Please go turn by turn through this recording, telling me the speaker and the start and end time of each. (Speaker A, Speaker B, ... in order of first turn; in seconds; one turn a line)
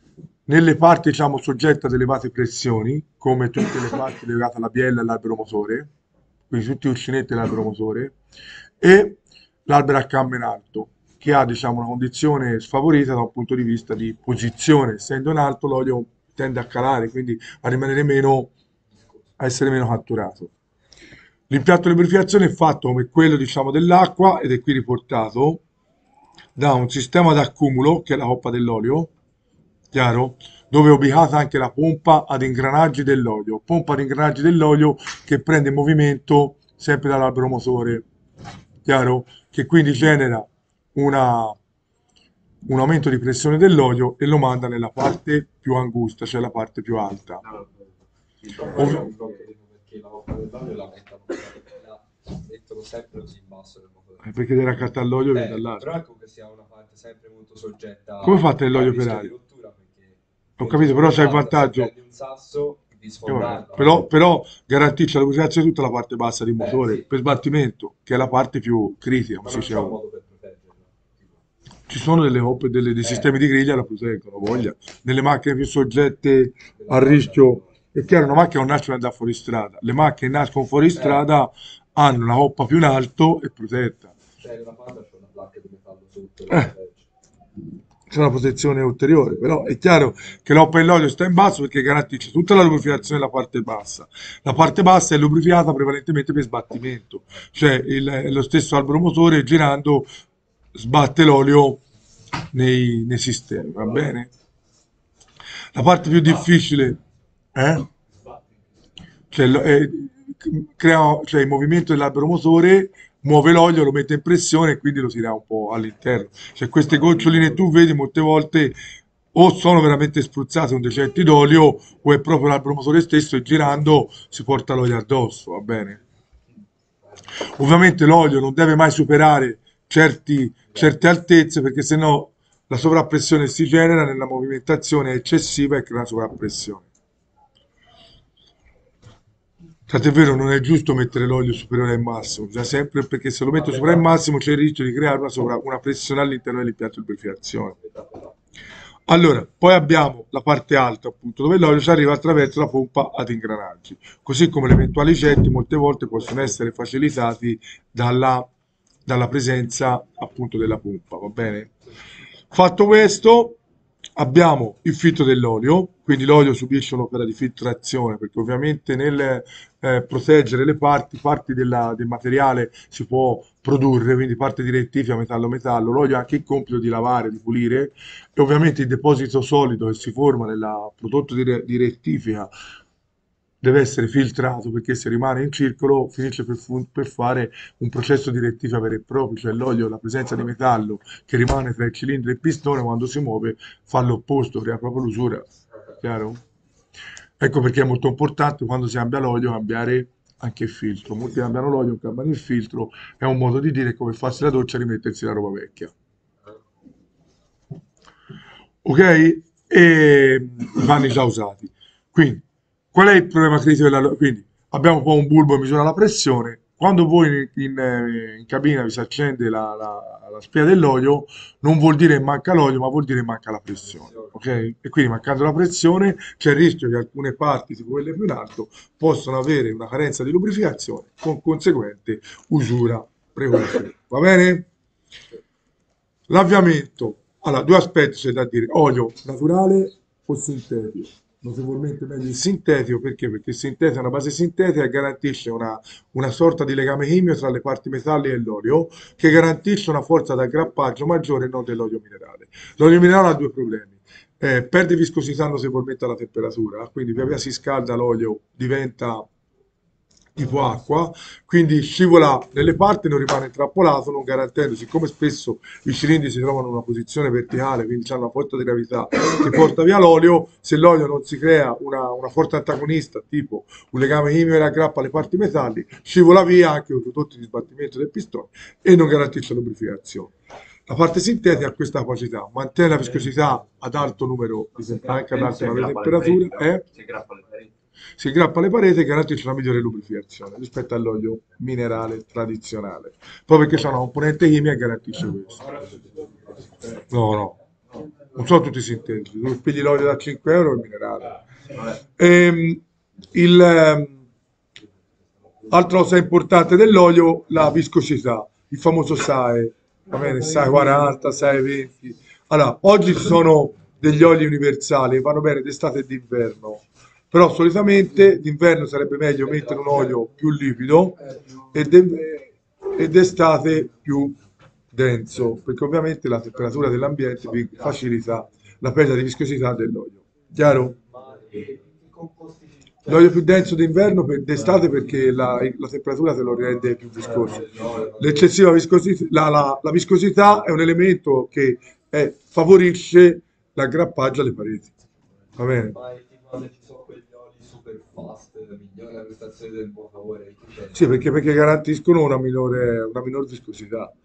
Speaker A: 0.5-5.9
Speaker A: 6.5-8.1
Speaker A: 8.8-18.5
Speaker A: 19.4-20.5
Speaker A: 21.5-25.6
Speaker A: 26.6-29.1
Speaker A: 29.9-38.0
Speaker A: 38.9-41.6
Speaker A: 42.6-47.4
Speaker B: 47.4-49.5
Speaker C: 48.5-54.3
Speaker A: 48.7-49.1
Speaker A: 54.2-55.9
Speaker C: 55.3-64.1
Speaker A: 58.2-59.3
Speaker A: 60.6-61.9
Speaker A: 63.2-70.0
Speaker C: 66.6-67.0
Speaker C: 69.4-71.4
Speaker A: 71.9-84.1
Speaker C: 76.8-77.8
Speaker C: 81.0-81.2
Speaker C: 84.4-87.1
Speaker A: 88.1-100.1
Speaker A: 100.8-101.8
Speaker A: 102.5-104.3
Speaker A: 105.7-107.0
Speaker A: 107.5-107.9
Speaker A: 109.3-118.8
Speaker A: 119.3-126.0
Speaker A: 127.6-136.9
Speaker A: 139.9-147.8
Speaker C: 143.6-144.0
Speaker C: 147.8-148.3
Speaker A: 149.1-158.5
Speaker A: 159.1-161.7
Speaker A: 162.5-163.6
Speaker A: 164.2-182.5
Speaker A: 183.6-195.5
Speaker A: 196.0-196.4
Speaker A: 197.4-205.9
Speaker A: 208.8-212.4
Speaker A: 212.9-234.7
Speaker C: 224.0-224.3
Speaker A: 236.3-259.3
Speaker A: 260.4-280.3
Speaker A: 280.9-286.9
Speaker B: 284.9-287.7
Speaker A: 288.2-295.7
Speaker C: 295.7-296.3
Speaker A: 297.1-297.6
Speaker A: 298.3-301.4
Speaker A: 302.2-304.2
Speaker A: 305.7-321.2
Speaker A: 321.7-324.4
Speaker A: 324.9-331.0
Speaker C: 331.0-333.1
Speaker A: 333.1-344.9
Speaker C: 337.2-338.5
Speaker A: 345.6-346.0
Speaker C: 345.9-351.1
Speaker A: 350.9-354.1